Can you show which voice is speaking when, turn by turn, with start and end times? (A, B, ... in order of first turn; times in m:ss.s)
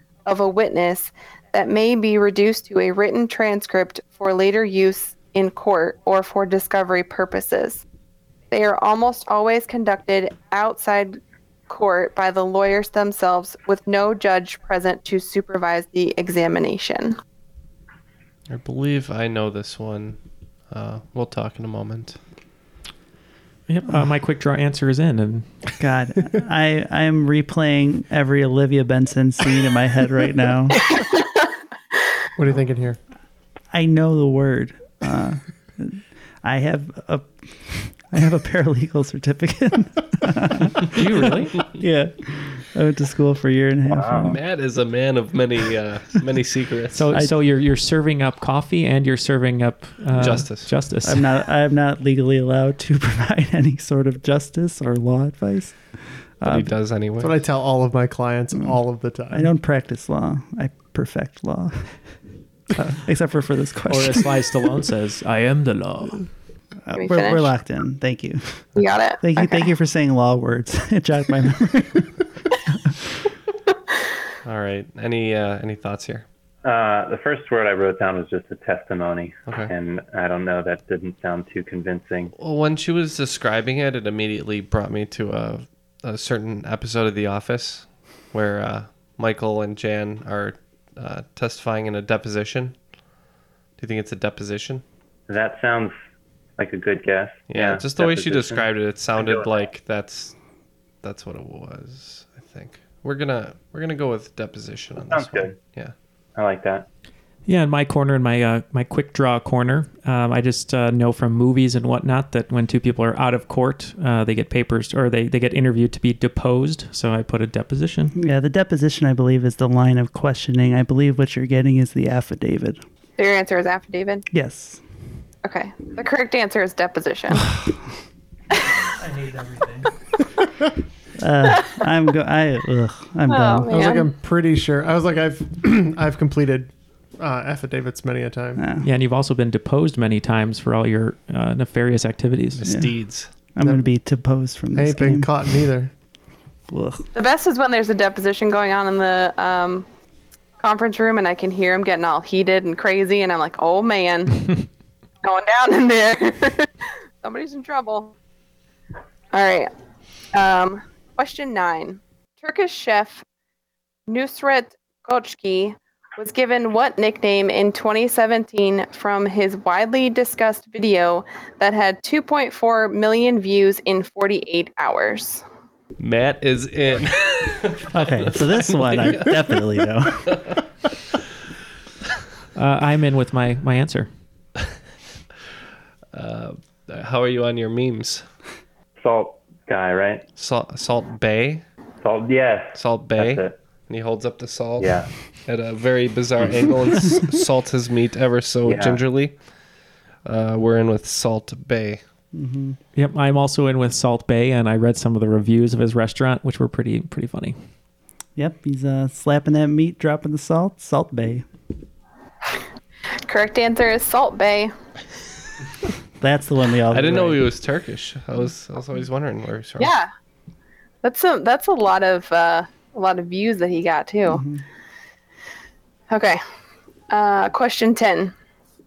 0:00.3-0:07.8 A
0:08.5-0:11.2 A
0:11.7-0:17.2 A
0:18.5-0:20.2 B
0:20.7-0:22.2 B
0:23.7-0:25.5 C
0:25.8-0:30.8 D
0:32.4-0:33.0 E
0:33.7-0:41.0 D
0:40.9-0:41.6 C
0:41.6-0:44.4 D
0:43.9-0:44.3 F
0:44.2-0:47.1 B
0:46.9-0:51.3 C
0:50.1-0:50.7 B
0:51.0-0:56.7 D
0:56.4-0:57.4 B
0:57.2-0:59.5 E
0:59.3-1:02.2 D
1:02.8-1:04.3 D
1:03.9-1:06.3 C
1:06.8-1:08.7 D
1:07.0-1:07.5 A
1:08.8-1:09.7 A
1:09.2-1:13.0 D
1:14.4-1:16.2 B
1:16.6-1:22.3 F
1:19.5-1:19.7 B
1:22.4-1:32.8 B
1:33.8-1:34.8 B
1:35.3-1:36.0 F
1:36.6-1:39.7 F
1:37.5-1:40.4 B
1:41.0-1:45.9 B
1:45.0-1:45.6 F
1:46.4-1:46.9 F
1:47.5-1:58.1 C
1:58.2-2:02.8 D
2:03.2-2:04.3 A
2:04.3-2:04.8 D
2:05.4-2:07.5 A
2:09.0-2:09.9 D
2:11.2-2:13.7 D
2:13.3-2:14.1 A
2:13.7-2:18.6 E
2:18.6-2:18.9 D
2:18.8-2:22.6 C
2:22.6-2:23.3 B
2:22.6-2:23.0 D
2:23.6-2:25.3 D
2:23.6-2:23.9 E
2:24.8-2:25.9 E
2:26.7-2:27.1 D
2:27.2-2:29.9 A
2:30.6-2:34.5 A
2:35.2-2:36.7 A
2:37.2-2:38.1 A
2:39.3-2:39.7 A
2:40.3-2:43.2 A
2:44.1-2:55.4 A
2:56.0-2:59.4 B
2:57.9-3:00.4 D
3:02.6-3:04.1 C
3:06.1-3:08.2 B
3:09.0-3:10.2 F
3:10.4-3:11.6 B
3:12.0-3:13.6 F
3:12.8-3:19.4 B
3:14.8-3:15.1 F
3:18.6-3:19.0 F
3:20.2-3:22.0 B
3:22.3-3:22.8 D
3:23.0-3:27.6 C
3:28.4-3:31.5 D
3:33.3-3:34.7 A
3:36.2-3:37.4 D
3:36.9-3:39.9 B
3:39.8-3:40.1 A
3:41.0-3:44.4 A
3:44.3-3:44.6 D
3:46.1-3:46.4 A
3:47.1-3:48.3 A